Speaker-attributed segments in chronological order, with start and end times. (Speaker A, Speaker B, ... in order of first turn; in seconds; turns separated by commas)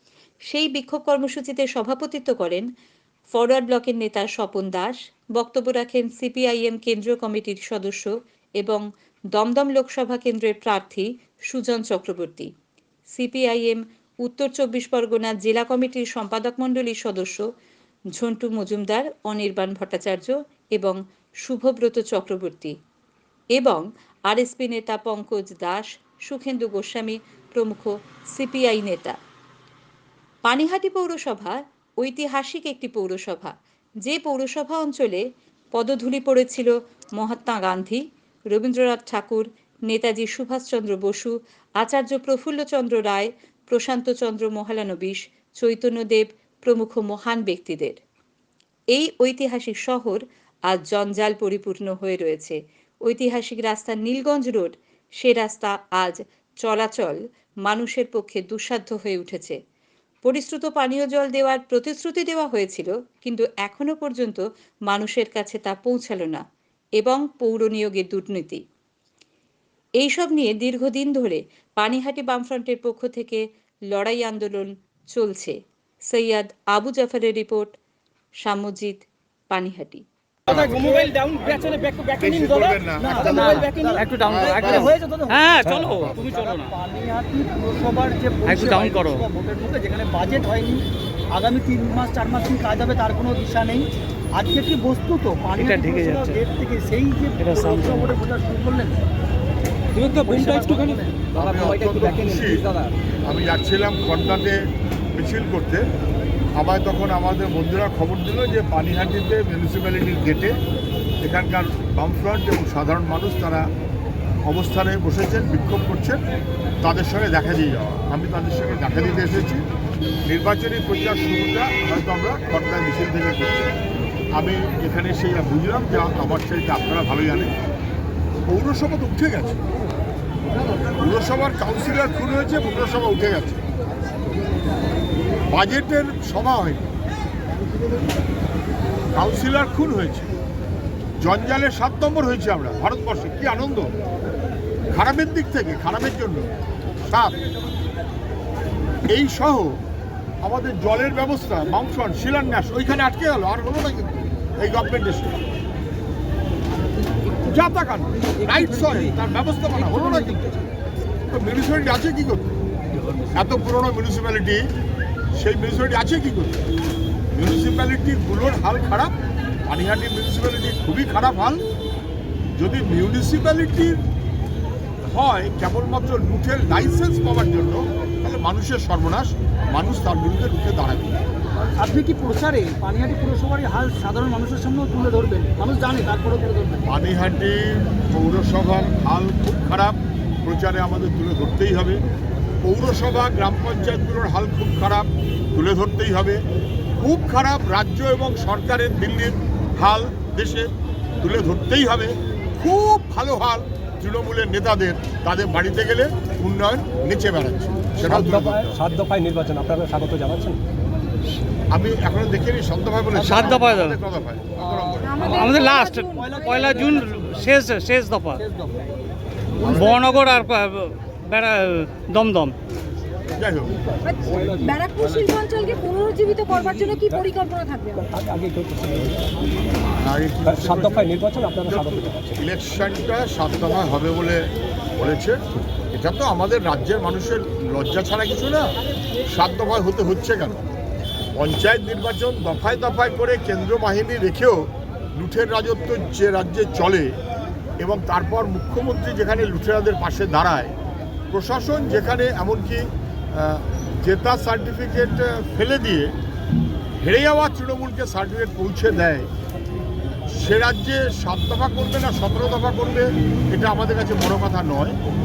Speaker A: 0.5-2.7, Speaker A: 3.3-8.8, Speaker A: 9.3-12.5, Speaker A: 13.2-17.4, Speaker A: 18.1-22.7, Speaker A: 23.6-29.1, Speaker A: 30.5-33.5, Speaker A: 34.0-35.2, Speaker A: 35.7-48.0, Speaker A: 48.9-59.6, Speaker A: 60.2-66.4, Speaker A: 67.0-68.6, Speaker A: 70.0-75.5, Speaker A: 76.1-77.7, Speaker A: 78.4-80.0, Speaker B: 80.5-81.0, Speaker C: 80.5-81.8, Speaker D: 80.6-81.8, Speaker B: 82.2-83.6, Speaker D: 82.5-99.0, Speaker C: 83.2-86.7, Speaker B: 84.2-84.9, Speaker C: 88.4-89.2, Speaker C: 95.6-96.4, Speaker C: 97.4-98.2, Speaker D: 100.0-101.3, Speaker B: 101.3-102.6, Speaker B: 103.2-104.6, Speaker B: 105.1-105.8, Speaker B: 106.5-110.5, Speaker B: 111.2-113.7, Speaker B: 114.4-116.2, Speaker B: 116.8-119.6, Speaker B: 120.3-123.7, Speaker B: 124.3-127.5, Speaker B: 128.5-129.6, Speaker B: 130.9-133.6, Speaker B: 135.5-136.9, Speaker B: 139.1-140.3, Speaker B: 141.2-143.9, Speaker B: 144.9-146.5, Speaker B: 147.1-147.3, Speaker B: 149.1-149.8, Speaker B: 150.4-155.4, Speaker B: 157.4-160.4, Speaker B: 161.3-162.6, Speaker B: 163.3-164.6, Speaker B: 165.3-166.7, Speaker B: 167.3-169.1, Speaker B: 169.7-171.6, Speaker B: 172.6-174.0, Speaker B: 175.0-181.2, Speaker D: 181.8-186.8, Speaker B: 186.8-192.0, Speaker B: 192.6-196.4, Speaker B: 197.0-200.7, Speaker B: 201.2-208.8, Speaker E: 208.0-210.6, Speaker B: 211.7-215.1, Speaker D: 213.1-213.7, Speaker C: 213.2-214.0, Speaker D: 214.6-217.2, Speaker F: 215.0-216.4, Speaker C: 215.2-218.4, Speaker D: 218.4-218.9, Speaker D: 219.6-219.9, Speaker B: 219.6-220.0, Speaker C: 219.7-222.5, Speaker B: 223.3-223.8, Speaker F: 224.1-228.0, Speaker E: 224.3-224.8, Speaker E: 227.9-229.3, Speaker B: 229.8-235.4, Speaker E: 230.5-232.4, Speaker B: 235.9-238.7, Speaker B: 239.2-240.6, Speaker B: 241.4-247.1, Speaker B: 247.8-250.7, Speaker B: 251.3-256.1, Speaker B: 257.0-259.3, Speaker B: 260.3-265.0